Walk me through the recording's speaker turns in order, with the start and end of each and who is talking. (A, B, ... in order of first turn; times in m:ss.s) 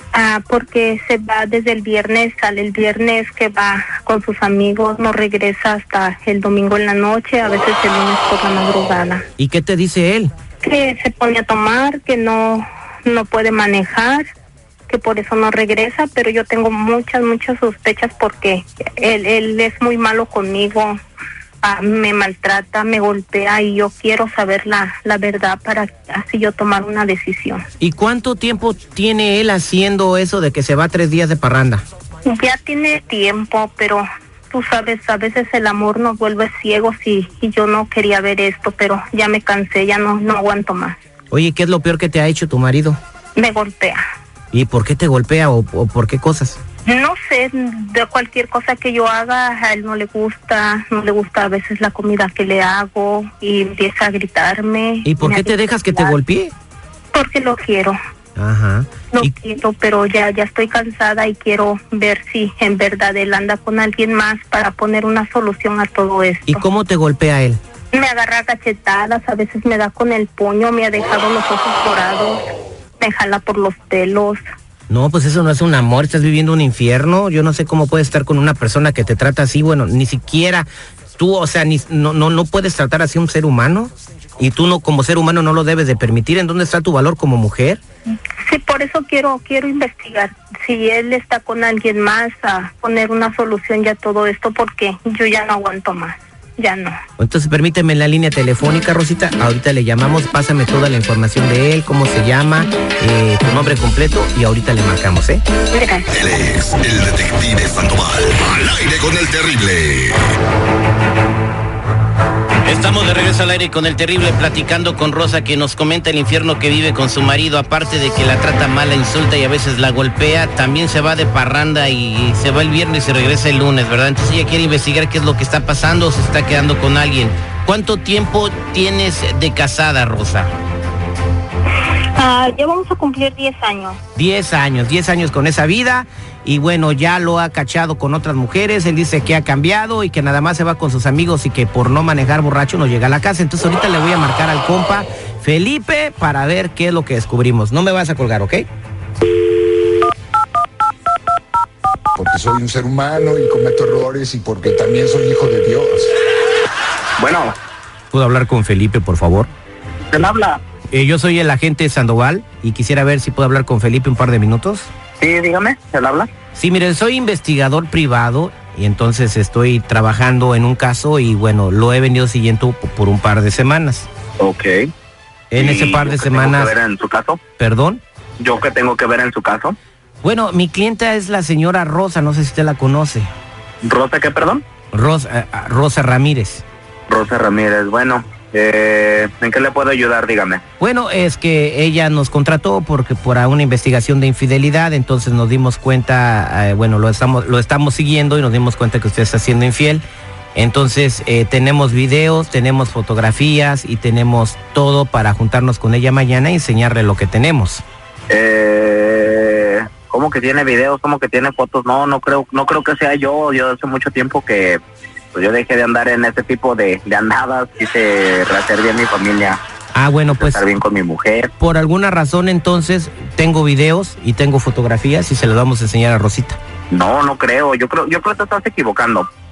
0:00.1-0:09.2 A
0:09.4-0:10.3 B
0:10.6-0:14.2 A
0:14.9-0:21.0 A
0:21.6-0:27.6 A
0:27.8-0:31.8 B
0:32.2-0:41.0 A
0:41.3-0:43.0 B
0:43.4-0:44.0 A
0:44.5-0:46.6 B
0:46.9-0:56.2 A
0:55.0-0:56.5 B
0:57.1-0:58.0 A
0:58.4-0:59.3 B
0:59.1-1:06.6 A
1:06.5-1:07.6 B
1:07.9-1:12.4 A
1:13.0-1:14.4 A
1:14.9-1:27.8 B
1:28.5-1:36.9 A
1:37.2-1:45.4 B
1:45.7-1:46.0 A
1:46.1-1:50.2 C
1:52.6-2:10.5 B
2:12.2-2:14.0 A
2:14.2-2:28.6 B
2:32.2-2:36.0 D
2:37.2-2:37.5 E
2:38.1-2:39.5 B
2:40.1-2:40.6 E
2:40.9-2:44.9 B
2:45.2-2:46.3 E
2:46.5-2:54.1 B
2:54.4-2:54.8 E
2:55.5-2:56.7 B
2:55.5-2:57.4 E
2:57.6-2:58.0 B
2:58.4-2:59.8 E
3:00.2-3:03.3 B
3:03.8-3:04.6 E
3:04.9-3:06.6 B
3:07.1-3:10.6 E
3:10.8-3:20.0 B
3:20.5-3:27.8 B
3:28.3-3:34.8 E
3:35.3-3:39.6 E
3:39.9-3:40.6 B
3:40.3-3:41.5 E
3:41.6-3:46.6 B
3:46.9-3:49.3 E